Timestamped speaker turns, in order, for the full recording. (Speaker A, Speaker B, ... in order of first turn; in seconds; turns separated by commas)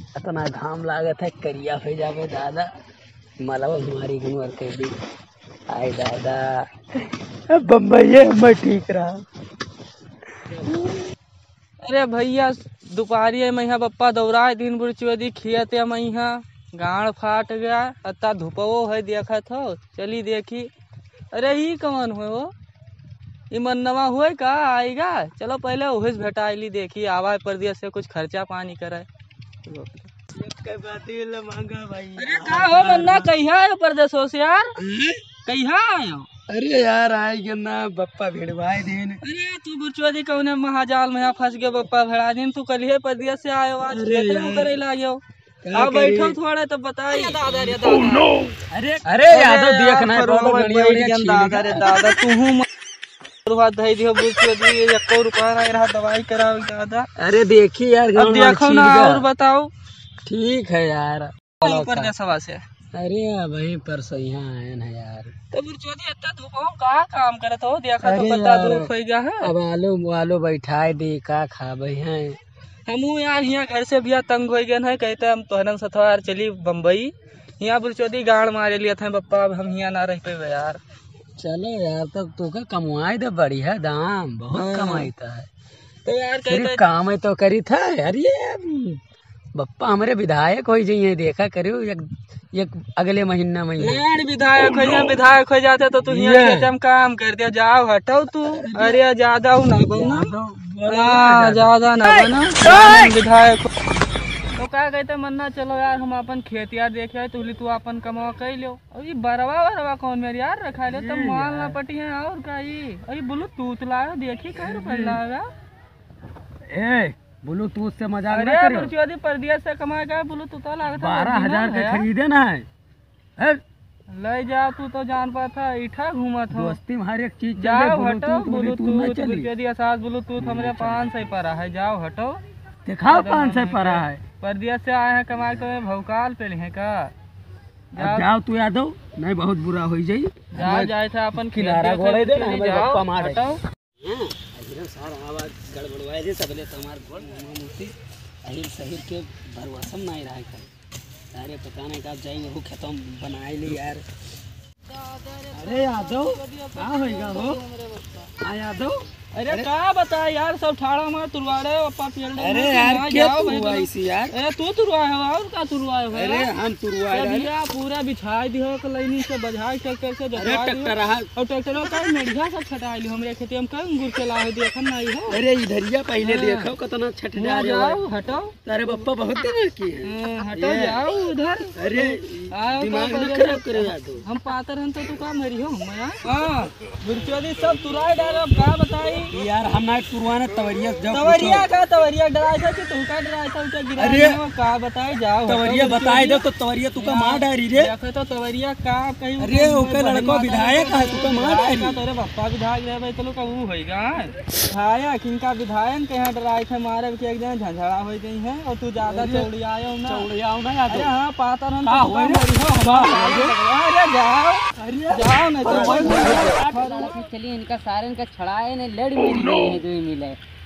Speaker A: 0.1-2.7, Speaker A: 3.4-4.9, Speaker A: 5.7-9.2, Speaker B: 11.8-20.7, Speaker B: 21.3-22.5, Speaker B: 23.5-29.1, Speaker B: 29.7-30.1, Speaker A: 30.4-33.3, Speaker B: 32.2-34.7, Speaker A: 34.8-35.2, Speaker B: 35.5-36.3, Speaker A: 36.5-39.2, Speaker B: 39.2-45.2, Speaker A: 43.9-44.7, Speaker A: 45.6-46.4, Speaker B: 45.7-48.3, Speaker A: 47.1-47.4, Speaker A: 48.7-52.0, Speaker B: 49.3-52.7, Speaker B: 53.5-57.1, Speaker A: 57.2-59.3, Speaker B: 58.1-59.7, Speaker A: 60.2-62.1, Speaker B: 61.6-62.6, Speaker A: 62.9-65.3, Speaker B: 65.5-69.5, Speaker A: 68.0-72.4, Speaker B: 72.9-80.8, Speaker A: 81.4-85.5, Speaker B: 84.5-85.1, Speaker B: 86.0-86.8, Speaker A: 86.5-89.0, Speaker A: 89.5-94.0, Speaker B: 93.8-100.3, Speaker A: 94.7-95.0, Speaker A: 96.0-96.7, Speaker A: 98.3-99.0, Speaker A: 99.9-103.1, Speaker B: 100.9-103.7, Speaker B: 104.5-115.5, Speaker A: 110.9-111.8, Speaker A: 114.5-115.2, Speaker A: 116.7-118.9, Speaker B: 118.3-122.1, Speaker A: 120.9-122.7, Speaker B: 124.1-126.8, Speaker A: 126.5-129.5, Speaker B: 127.6-132.4, Speaker A: 130.4-131.3, Speaker A: 132.8-134.2, Speaker B: 133.1-137.1, Speaker A: 135.4-135.7, Speaker B: 137.9-138.3, Speaker A: 138.0-143.5, Speaker B: 140.5-143.6, Speaker A: 144.0-147.9, Speaker A: 148.4-150.7, Speaker A: 151.3-154.0, Speaker B: 154.9-158.3, Speaker A: 155.5-157.6, Speaker A: 158.4-159.7, Speaker B: 159.3-166.5, Speaker A: 162.4-164.4, Speaker A: 166.1-167.5, Speaker B: 167.1-175.4, Speaker A: 170.3-171.3, Speaker A: 175.3-178.0, Speaker B: 176.2-176.7, Speaker B: 177.3-179.0, Speaker A: 178.7-181.1, Speaker B: 180.0-189.3, Speaker A: 181.8-184.2, Speaker A: 189.3-191.7, Speaker B: 191.1-196.4, Speaker A: 194.0-194.4, Speaker A: 195.5-197.9, Speaker B: 197.0-210.3, Speaker A: 199.4-202.0, Speaker A: 209.0-209.5, Speaker A: 210.1-211.1, Speaker B: 210.9-217.2, Speaker A: 211.8-213.6, Speaker A: 214.8-217.2, Speaker C: 215.8-220.4